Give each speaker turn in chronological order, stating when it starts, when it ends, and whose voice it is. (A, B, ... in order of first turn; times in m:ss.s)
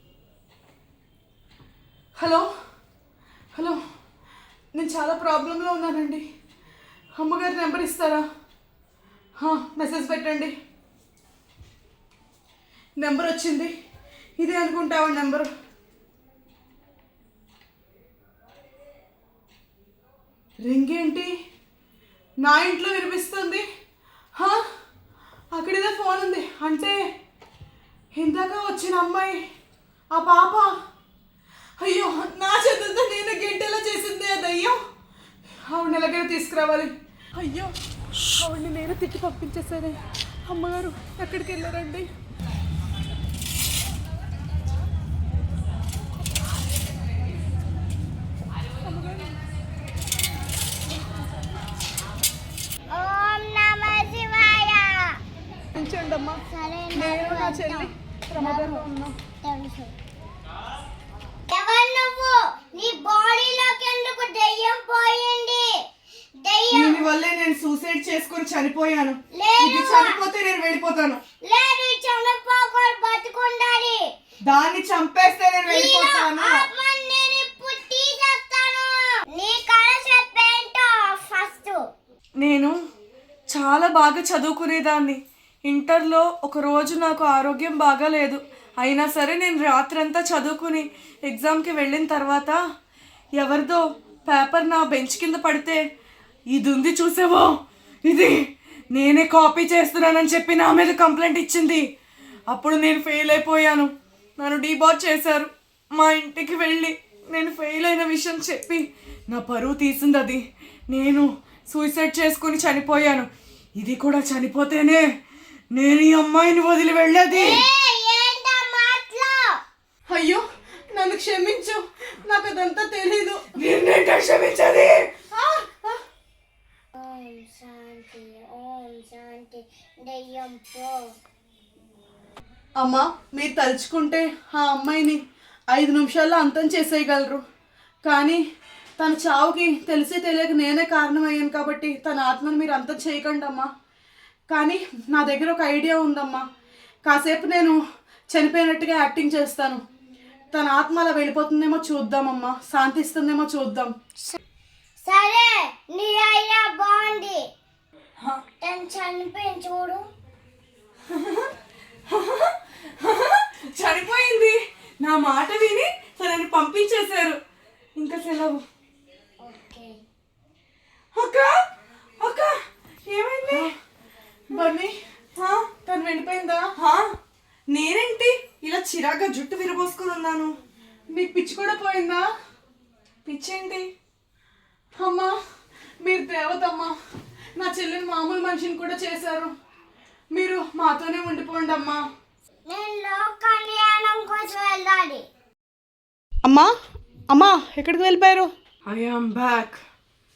0:02.2-0:02.5 A
0:04.7-0:06.2 A
0:07.2-0:08.2 A
0:09.4-0:10.5 A
0:13.0-0:13.7 A
0:14.4-0:15.5 A
0:20.6-0:21.3 A
0:22.4-0:23.6 A
0:25.5-0:27.0 A
0:28.1-0:29.4 A
0:30.1-0:30.7 A
0:31.8-0:34.8 A
0:35.6-0:37.7 A
0:38.4-0:42.1 A
0:48.8-0:49.3 A
0:52.9-0:55.2 B
0:55.7-0:56.4 A
0:56.4-0:58.8 B
0:56.9-0:59.2 A
0:59.4-0:59.9 B
1:01.5-1:05.8 B
1:06.4-1:07.0 B
1:06.7-1:11.2 C
1:09.3-1:10.2 B
1:11.4-1:14.1 B
1:14.5-1:16.5 C
1:15.6-1:21.8 B
1:22.4-1:22.7 C
1:23.5-1:32.6 C
1:33.3-1:35.8 C
1:36.5-1:41.9 C
1:42.5-1:55.0 C
1:55.7-1:57.6 C
1:57.3-1:59.6 B
2:00.1-2:00.4 A
2:00.9-2:03.5 A
2:03.6-2:05.0 C
2:05.3-2:06.0 A
2:07.0-2:11.0 B
2:12.8-2:17.4 A
2:18.0-2:18.4 A
2:19.0-2:23.7 A
2:24.5-2:26.4 A
2:27.0-2:27.8 A
2:28.3-2:29.8 A
2:30.5-2:33.9 A
2:35.0-2:37.4 B
2:38.6-2:40.0 B
2:41.1-2:41.5 C
2:42.1-2:47.4 C
2:48.0-2:48.6 C
2:49.4-2:50.0 B
2:51.1-2:51.6 C
2:52.2-2:52.5 C
2:53.1-2:53.7 C
2:54.5-2:54.9 A
2:55.4-2:55.7 C
2:55.8-2:56.7 A
2:56.8-2:57.1 C
2:57.7-3:00.5 C
3:01.1-3:02.2 A
3:03.2-3:03.9 C
3:05.0-3:05.3 A
3:06.0-3:06.9 A
3:07.6-3:09.5 A
3:10.3-3:12.0 A
3:12.7-3:15.2 B
3:16.4-3:16.7 A
3:17.3-3:18.5 A
3:18.8-3:19.8 C